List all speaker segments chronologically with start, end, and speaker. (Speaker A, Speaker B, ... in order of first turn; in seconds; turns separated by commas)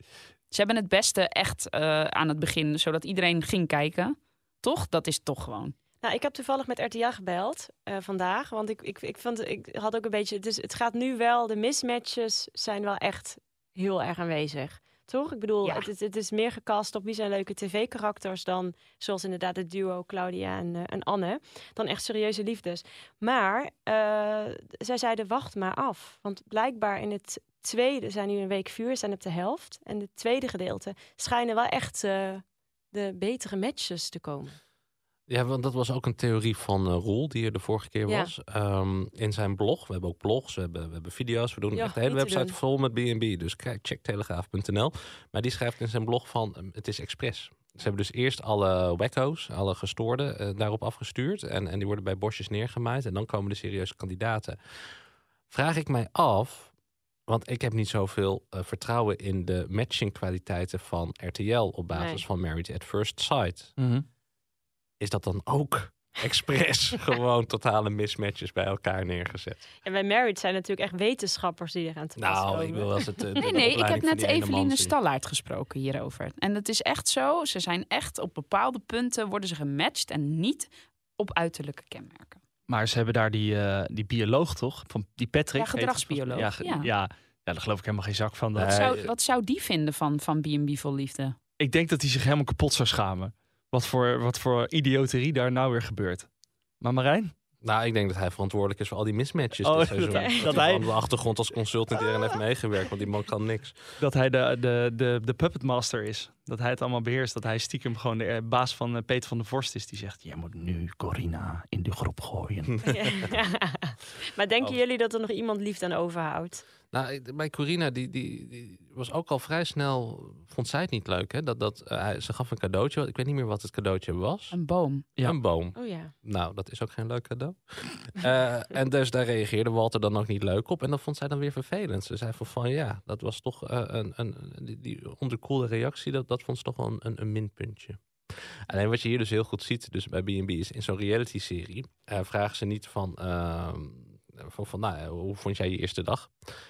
Speaker A: 0.5-5.7, Speaker B: 6.0-34.6, Speaker A: 15.6-15.9, Speaker C: 35.3-54.6, Speaker B: 41.7-42.5, Speaker C: 55.5-56.7, Speaker C: 57.3-63.7, Speaker B: 61.9-62.2, Speaker D: 63.8-64.0, Speaker C: 65.0-69.6, Speaker B: 69.8-73.5, Speaker C: 72.2-74.9, Speaker A: 73.4-82.4, Speaker D: 82.7-88.9, Speaker A: 85.5-86.9, Speaker C: 88.5-89.1, Speaker A: 88.7-91.3, Speaker D: 91.6-96.3, Speaker D: 96.8-97.3, Speaker C: 97.6-103.8, Speaker D: 99.6-100.9, Speaker B: 100.1-100.6, Speaker D: 104.0-112.7, Speaker B: 112.8-116.6, Speaker C: 116.9-124.5, Speaker A: 124.5-125.0, Speaker C: 125.2-138.0, Speaker B: 125.7-126.1, Speaker C: 138.7-146.3